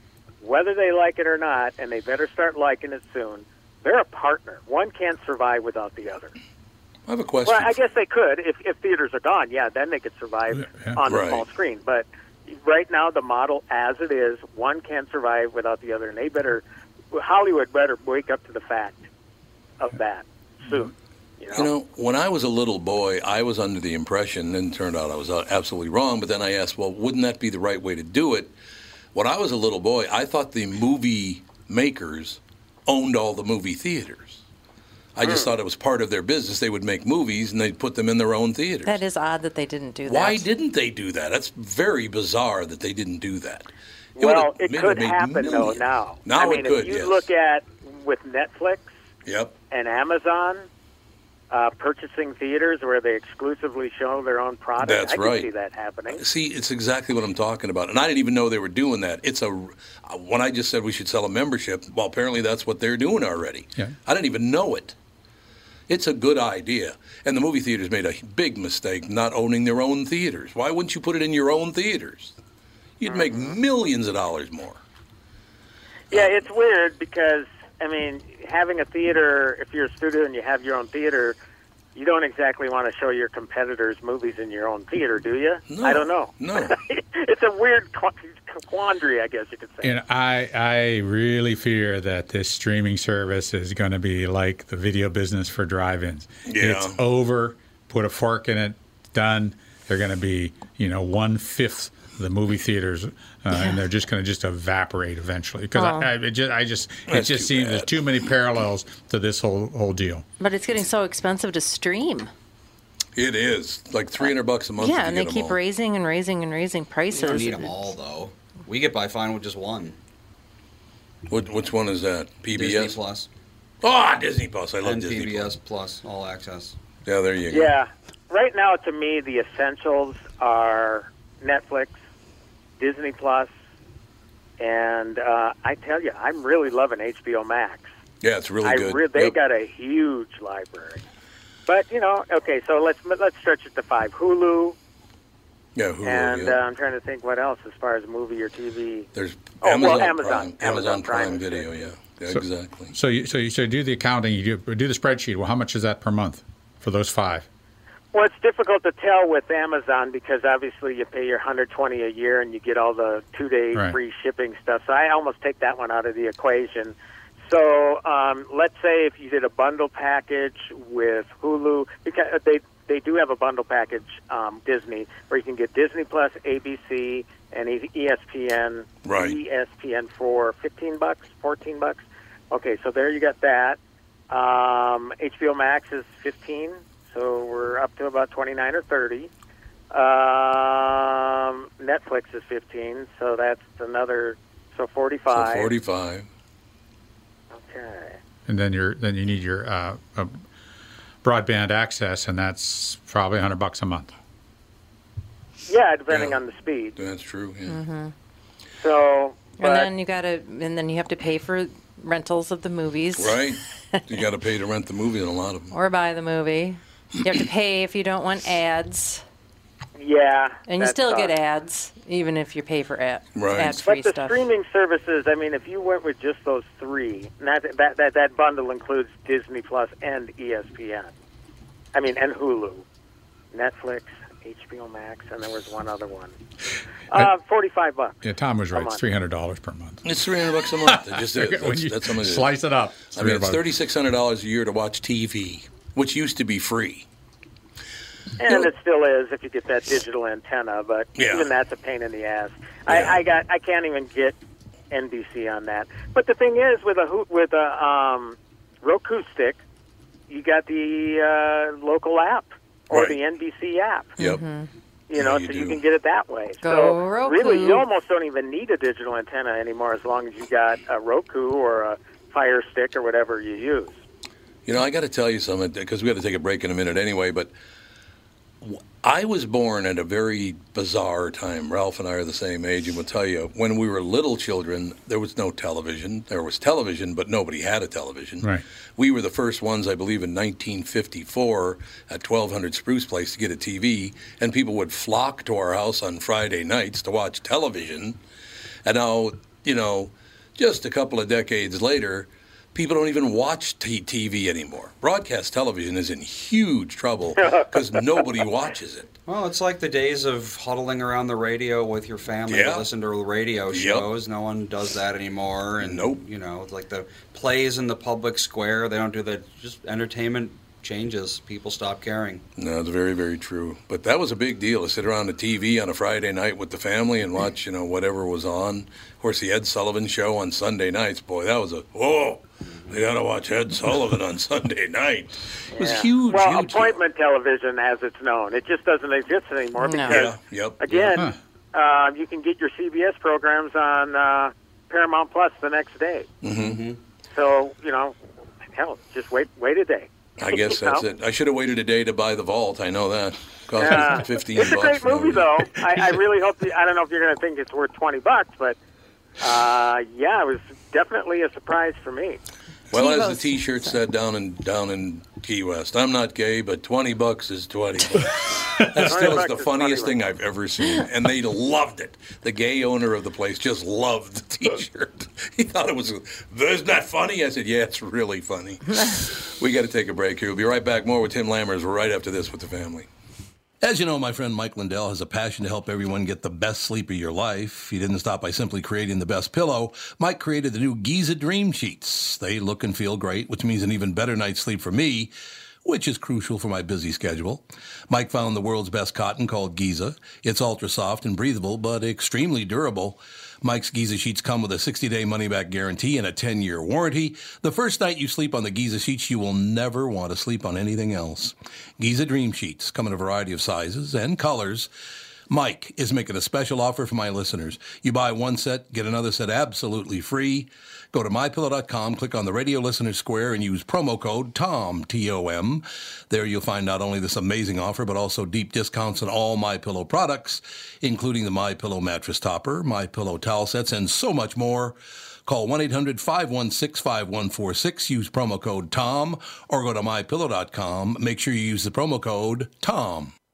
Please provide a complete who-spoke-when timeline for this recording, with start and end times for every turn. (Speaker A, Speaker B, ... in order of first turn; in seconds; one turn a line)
Speaker A: 0.4-6.3
Speaker B: 7.1-7.8
Speaker A: 7.5-19.0
Speaker C: 10.6-11.0
Speaker B: 11.1-11.4
Speaker A: 19.8-21.7
Speaker B: 21.5-28.5
Speaker B: 29.1-34.4
Speaker B: 35.2-39.0
Speaker A: 35.2-35.5
Speaker D: 38.9-40.5
Speaker B: 40.0-47.2
Speaker A: 44.2-48.9
Speaker B: 49.3-49.5
Speaker A: 49.7-50.7
Speaker A: 51.5-56.2
Speaker B: 54.8-55.5
Speaker B: 56.1-65.0
Speaker B: 65.9-72.3
Speaker B: 73.0-74.8
Speaker A: 73.1-73.6
Speaker A: 76.1-81.4
Speaker B: 76.1-76.4
Speaker A: 82.0-89.9
Speaker B: 85.7-86.8
Speaker C: 89.8-110.2
Speaker B: 96.5-97.0
Speaker D: 105.8-106.1
Speaker B: 107.1-108.0
Speaker D: 110.4-112.3
Speaker B: 113.2-115.6
Speaker D: 114.2-117.8
Speaker E: 117.1-120.0
Speaker B: 121.3-123.0
Speaker E: 122.5-123.3
Speaker B: 123.8-125.5
Speaker E: 124.8-126.8
Speaker B: 127.0-127.7
Speaker A: 127.5-132.0
Speaker A: 132.8-133.5
Speaker A: 134.6-137.9
Speaker B: 138.2-139.4
Speaker A: 138.6-141.0
Speaker A: 141.7-144.8
Speaker B: 145.8-146.6
Speaker A: 146.0-149.1
Speaker B: 149.2-152.9
Speaker A: 149.6-151.7
Speaker C: 152.3-157.5
Speaker A: 158.1-166.9
Speaker A: 167.5-183.8
Speaker B: 179.1-179.4
Speaker A: 184.3-189.3
Speaker A: 189.9-195.7
Speaker B: 195.3-196.3
Speaker A: 197.6-198.2
Speaker C: 198.5-200.4
Speaker C: 201.2-204.1
Speaker A: 205.7-207.0
Speaker B: 206.1-206.4
Speaker B: 207.0-207.8
Speaker D: 207.7-208.1
Speaker A: 208.8-209.9
Speaker D: 209.6-213.5
Speaker B: 213.2-215.7
Speaker D: 215.7-219.2
Speaker A: 220.0-221.3
Speaker D: 220.7-224.4
Speaker B: 223.4-223.8
Speaker A: 223.8-231.1
Speaker A: 231.9-232.8
Speaker A: 233.5-236.3
Speaker A: 237.1-238.2
Speaker C: 238.2-240.0
Speaker A: 238.7-239.0
Speaker B: 240.1-247.1
Speaker C: 240.8-243.6
Speaker A: 248.4-254.4
Speaker B: 251.2-251.5
Speaker B: 252.9-253.2
Speaker A: 254.9-259.6
Speaker A: 260.3-264.1
Speaker B: 262.9-263.2
Speaker B: 264.2-264.4
Speaker D: 264.2-264.7
Speaker A: 265.1-274.0
Speaker B: 265.1-265.8
Speaker D: 266.6-267.9
Speaker B: 274.7-277.5
Speaker B: 278.6-298.2
Speaker B: 298.9-309.1
Speaker A: 307.4-307.7
Speaker E: 309.3-322.4
Speaker B: 312.5-312.9
Speaker B: 313.7-314.1
Speaker B: 315.8-316.2
Speaker B: 322.6-337.0
Speaker E: 332.6-333.0
Speaker A: 335.7-346.3
Speaker D: 339.8-340.2
Speaker B: 340.1-340.8
Speaker B: 346.4-346.8
Speaker E: 346.6-347.0
Speaker A: 347.3-348.1
Speaker A: 348.7-351.1
Speaker B: 350.4-356.1
Speaker A: 353.8-358.8
Speaker A: 359.4-362.4
Speaker B: 362.9-383.1
Speaker D: 362.9-363.9
Speaker C: 368.5-369.2
Speaker A: 368.9-370.1
Speaker B: 383.8-395.3
Speaker B: 395.9-414.9
Speaker B: 415.5-443.3